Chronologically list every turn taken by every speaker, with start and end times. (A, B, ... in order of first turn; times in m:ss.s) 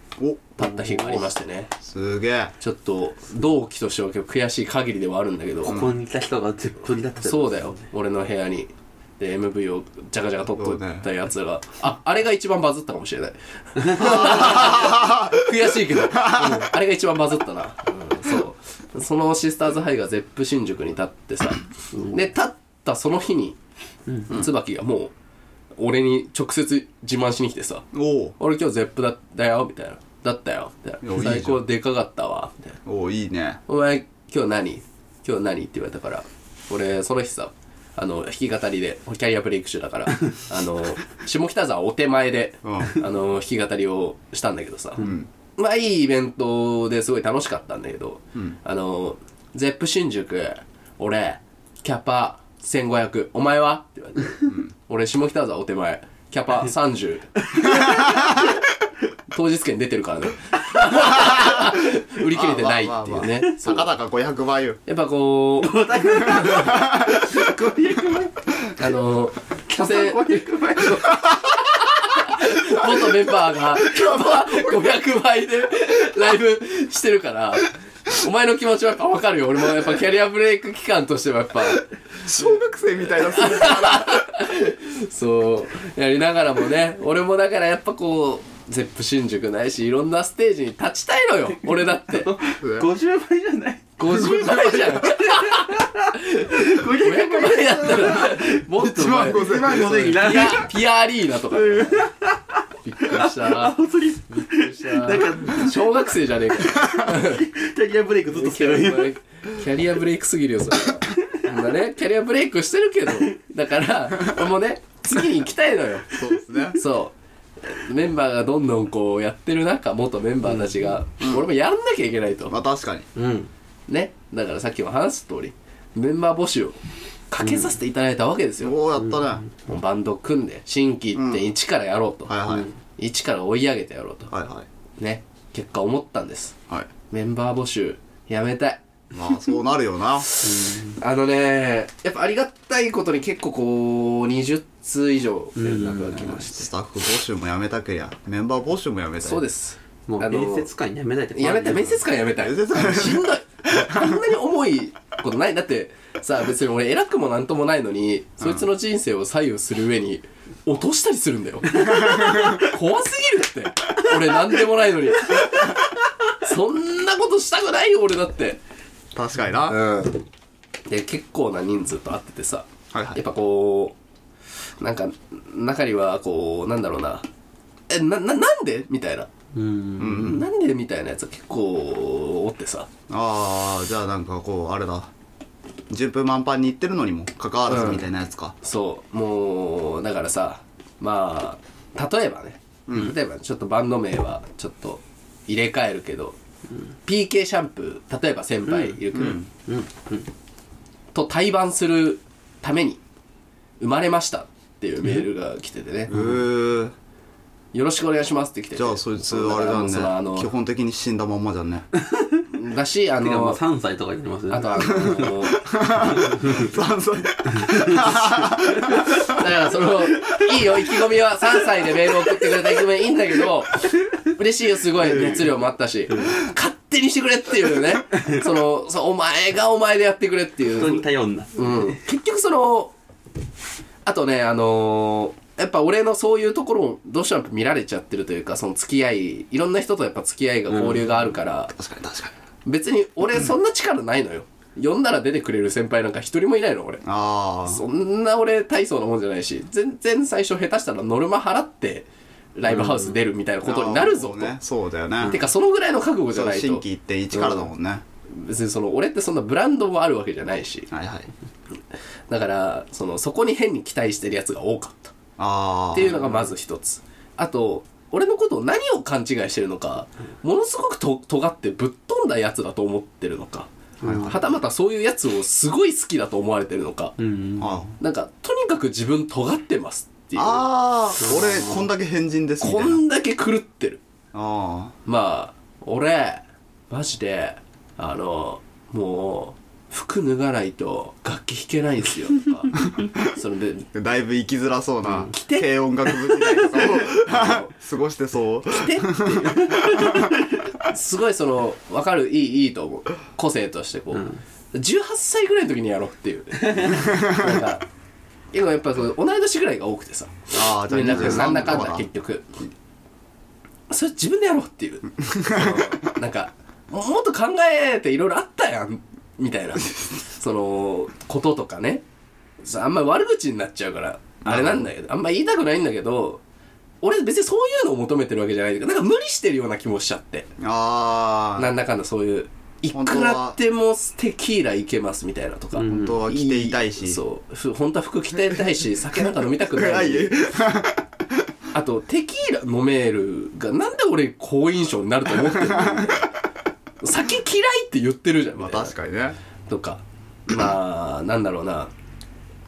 0:00.2-0:02.5 A
0:00.6-0:01.7 B
0:02.6-0:05.8 B
0:05.6-0:07.8 C
0:05.7-0:05.9 A
0:07.2-0:23.6 B
0:10.6-0:11.1 A
0:14.0-0:15.5 A
0:16.1-0:16.7 A
0:24.3-0:25.1 B
0:25.8-0:27.8 B
0:27.9-0:28.4 A
0:28.4-0:32.8 B
0:31.0-0:31.6 A
0:32.8-0:33.6 A
0:33.7-0:58.5 B
0:42.6-0:43.0 A
0:45.0-0:45.3 A
0:54.4-0:54.7 A
0:57.6-0:58.4 C
0:57.7-0:58.5 A
0:59.3-1:03.9 B
1:01.2-1:01.7 A
1:02.3-1:04.8 A
1:04.9-1:05.8 B
1:05.6-1:08.9 C
1:06.2-1:07.4 A
1:08.8-1:21.9 B
1:09.7-1:11.2 C
1:22.2-1:24.2 A
1:23.2-1:32.3 B
1:31.8-1:40.7 C
1:32.6-1:32.9 A
1:34.0-1:42.1 B
1:34.1-1:34.8 A
1:38.8-1:40.3 A
1:41.5-1:46.1 C
1:42.8-1:43.8 B
1:44.3-1:47.4 B
1:46.9-1:49.1 C
1:48.3-1:56.1 B
1:56.1-1:56.8 A
1:56.8-2:02.6 B
2:00.5-2:00.9 C
2:01.2-2:01.5 A
2:02.5-2:03.1 A
2:03.2-2:03.5 C
2:03.9-2:06.8 B
2:07.3-2:08.8 B
2:07.4-2:07.7 C
2:08.6-2:09.4 A
2:09.0-2:09.5 C
2:09.7-2:14.3 B
2:11.1-2:11.5 A
2:12.3-2:12.7 A
2:14.3-2:14.7 A
2:15.0-2:16.6 B
2:17.1-2:18.8 B
2:19.1-2:20.3 A
2:20.4-2:26.7 B
2:20.4-2:21.0 C
2:25.6-2:26.3 C
2:25.8-2:29.4 A
2:29.2-2:30.7 B
2:30.1-2:32.0 C
2:31.4-2:45.8 B
2:32.4-2:34.2 A
2:41.9-2:42.6 A
2:46.4-2:48.6 B
2:49.2-2:49.8 A
2:49.7-2:50.2 B
2:50.9-2:54.0 B
2:52.9-2:53.2 A
2:54.8-2:57.2 B
2:57.9-2:59.3 B
2:59.5-3:00.4 C
3:00.0-3:00.4 A
3:00.1-3:02.9 B
3:03.1-3:05.1 A
3:05.9-3:08.5 A
3:07.7-3:08.1 B
3:08.6-3:16.4 B
3:12.9-3:13.2 A
3:17.1-3:19.4 B
3:18.7-3:20.3 C
3:19.1-3:19.5 A
3:21.1-3:23.0 B
3:23.8-3:26.1 B
3:26.1-3:26.9 A
3:26.1-3:26.4 C
3:27.7-3:30.5 B
3:28.8-3:31.9 A
3:32.0-3:32.4 C
3:32.5-3:33.6 B
3:33.2-3:35.4 C
3:34.5-3:35.8 B
3:34.8-3:39.4 A
3:36.0-3:36.7 C
3:37.5-3:39.2 C
3:38.8-3:52.9 B
3:40.2-3:41.0 C
3:41.7-3:42.7 C
3:45.0-3:46.4 C
3:50.7-3:52.0 C
3:54.0-4:01.7 B
4:00.7-4:01.3 C
4:01.7-4:02.3 A
4:02.6-4:07.0 B
4:07.0-4:07.8 A
4:07.7-4:14.6 B
4:12.7-4:13.2 C
4:13.6-4:15.4 A
4:15.2-4:17.7 B
4:16.3-4:18.0 A
4:18.3-4:20.9 B
4:20.9-4:21.3 A
4:22.3-4:25.2 B
4:25.4-4:26.2 A
4:25.9-4:33.7 B
4:34.0-4:34.4 C
4:34.0-4:34.4 A
4:34.2-4:37.2 B
4:37.2-4:37.9 C
4:37.6-4:37.9 A
4:38.0-4:40.7 B
4:40.4-4:43.0 A
4:41.3-4:41.8 C
4:42.6-4:44.0 B
4:44.3-4:45.0 A
4:45.1-4:53.9 B
4:52.8-4:53.2 A
4:53.9-5:00.3 A
4:55.3-4:57.7 B
4:58.7-4:59.6 B
4:59.4-5:00.4 C
5:00.8-5:07.8 B
5:04.1-5:04.4 C
5:06.7-5:07.1 C
5:07.1-5:07.4 A
5:08.5-5:12.5 B
5:10.5-5:12.1 A
5:13.9-5:22.0 B
5:15.2-5:16.1 A
5:22.6-5:26.4 B
5:24.4-5:24.9 A
5:27.0-5:30.5 B
5:30.6-5:31.7 A
5:31.6-5:40.4 B
5:32.9-5:33.6 A
5:35.8-5:36.2 C
5:35.9-5:37.2 A
5:39.6-5:41.4 A
5:41.7-5:46.4 B
5:45.6-5:46.2 A
5:47.0-5:48.9 B
5:48.6-5:49.4 A
5:49.7-5:51.9 B